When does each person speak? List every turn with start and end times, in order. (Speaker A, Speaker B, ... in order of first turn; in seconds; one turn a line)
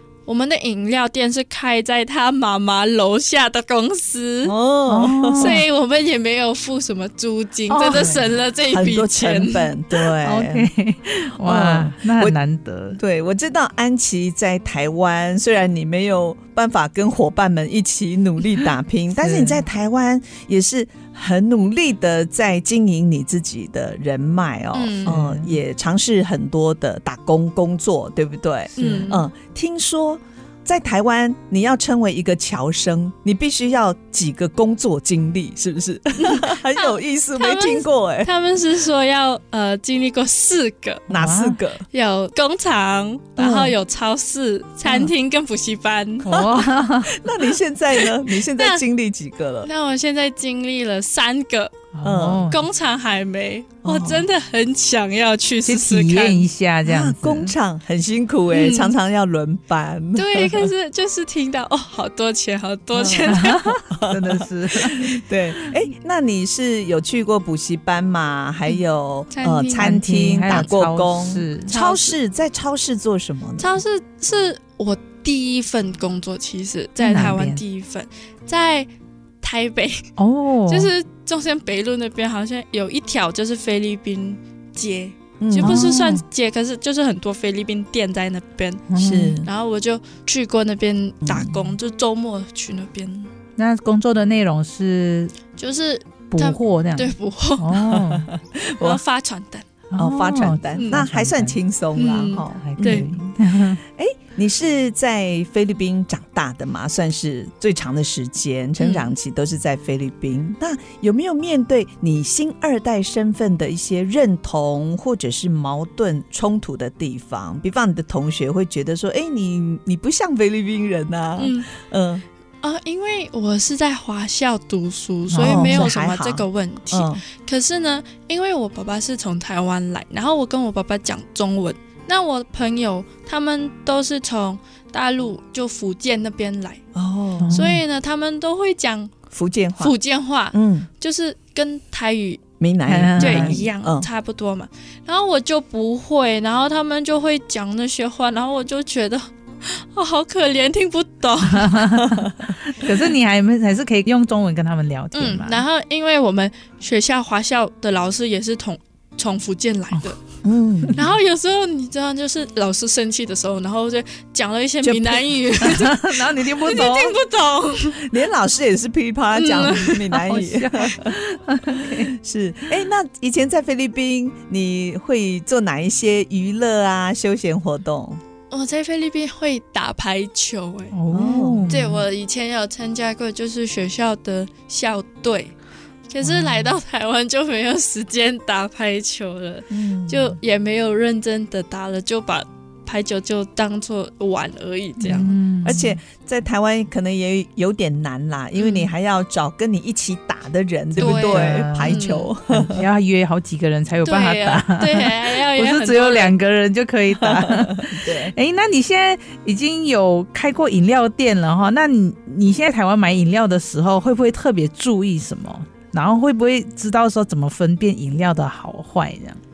Speaker A: 0.2-4.5
Speaker B: 4.4-5.6
Speaker C: 4.9-5.6
Speaker A: 5.4-9.7
Speaker C: 7.7-8.1
Speaker B: 7.9-10.7
Speaker C: 10.2-13.0
Speaker B: 11.4-12.4
Speaker B: 13.0-38.3
Speaker C: 19.2-19.6
Speaker A: 24.7-25.1
Speaker C: 25.1-25.5
Speaker A: 28.8-29.3
Speaker C: 28.8-29.1
Speaker A: 36.2-41.1
Speaker B: 41.1-41.8
Speaker C: 41.1-41.5
Speaker A: 41.9-46.3
Speaker B: 43.4-43.8
Speaker C: 46.2-47.2
Speaker B: 47.1-49.7
Speaker A: 48.6-48.8
Speaker A: 49.6-51.8
Speaker C: 51.9-52.6
Speaker B: 52.0-52.5
Speaker A: 52.5-56.5
Speaker B: 53.8-54.2
Speaker C: 55.6-57.5
Speaker B: 56.9-60.6
Speaker A: 58.5-59.0
Speaker A: 60.1-63.6
Speaker B: 63.0-63.4
Speaker C: 63.3-65.1
Speaker B: 63.9-73.8
Speaker A: 69.3-69.9
Speaker C: 69.8-71.9
Speaker A: 71.8-72.1
Speaker A: 73.6-78.9
Speaker C: 77.0-77.6
Speaker A: 79.4-80.1
Speaker C: 80.2-80.9
Speaker A: 80.7-88.8
Speaker B: 85.4-86.0
Speaker C: 85.6-86.2
Speaker C: 88.9-89.4
Speaker B: 89.0-89.5
Speaker A: 89.4-93.3
Speaker B: 91.2-91.7
Speaker C: 93.6-95.3
Speaker A: 95.5-97.8
Speaker C: 96.3-98.3
Speaker B: 97.9-99.0
Speaker A: 98.8-99.6
Speaker C: 99.9-101.6
Speaker B: 100.0-122.2
Speaker A: 100.7-101.0
Speaker A: 102.0-103.1
Speaker C: 102.6-103.8
Speaker A: 108.8-109.1
Speaker A: 121.4-121.7
Speaker A: 122.6-136.8
Speaker C: 125.3-125.9
Speaker B: 125.3-127.2
Speaker B: 136.9-137.6
Speaker C: 137.4-137.8
Speaker A: 137.5-139.1
Speaker B: 139.3-139.9
Speaker A: 139.8-142.4
Speaker B: 140.5-140.9
Speaker B: 142.6-144.1
Speaker C: 142.9-143.6
Speaker A: 143.2-151.8
Speaker C: 151.6-155.6
Speaker A: 155.1-160.2
Speaker B: 160.4-160.9
Speaker A: 160.9-168.0
Speaker B: 164.8-165.3
Speaker C: 165.6-167.1
Speaker B: 168.0-171.2
Speaker A: 169.3-170.2
Speaker C: 170.3-172.1
Speaker B: 171.9-178.2
Speaker A: 178.5-180.9
Speaker C: 180.9-182.0
Speaker B: 181.1-181.7
Speaker A: 181.7-185.5
Speaker A: 186.1-195.3
Speaker C: 186.2-186.7
Speaker B: 189.7-190.4
Speaker C: 195.0-196.0
Speaker B: 195.6-202.8
Speaker A: 198.6-198.9
Speaker A: 201.0-202.3
Speaker C: 201.0-202.0
Speaker C: 202.5-219.4
Speaker A: 204.1-206.3
Speaker B: 207.2-208.3